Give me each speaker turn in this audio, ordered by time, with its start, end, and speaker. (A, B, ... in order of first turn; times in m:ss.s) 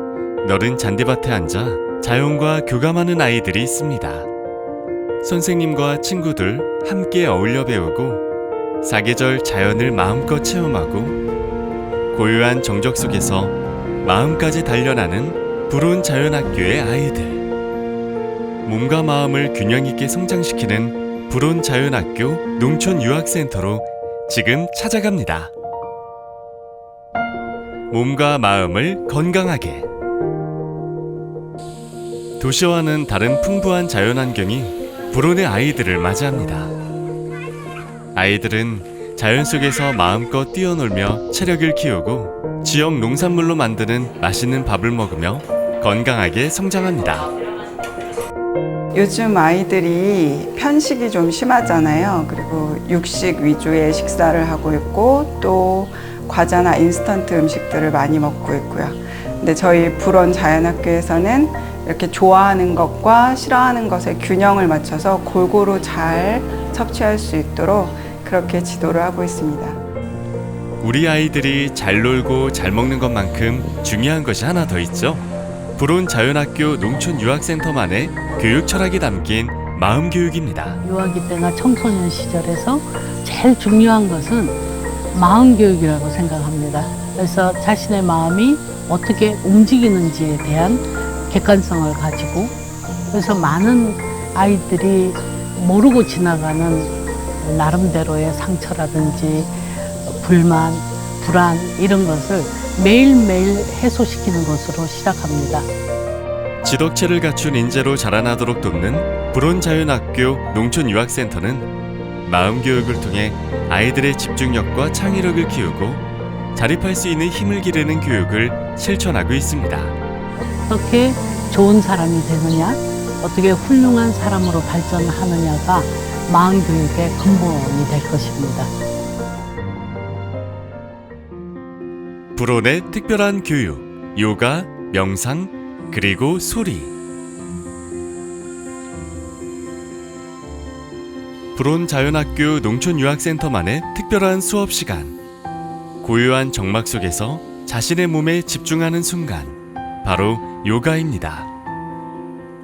0:00.4-0:04.3 A
0:05.2-0:08.2 A
0:08.8-0:11.2 A
0:12.1-0:17.4 A
0:18.6-0:25.5 A
0:27.9-0:29.9 A
0:32.4-0:36.7 A
0:38.2-0:47.3 A
0:48.9-1:09.8 B
1:10.8-1:15.3 A
1:15.8-1:20.8 A
1:20.8-1:24.6 C
1:25.1-1:32.6 C
1:33.1-1:45.7 C
1:46.6-1:51.7 A
1:52.3-1:56.0 A
1:56.6-2:00.0 A
2:00.5-2:08.7 C
2:12.4-2:16.9 A
2:21.6-2:25.2 A
2:26.0-2:31.5 A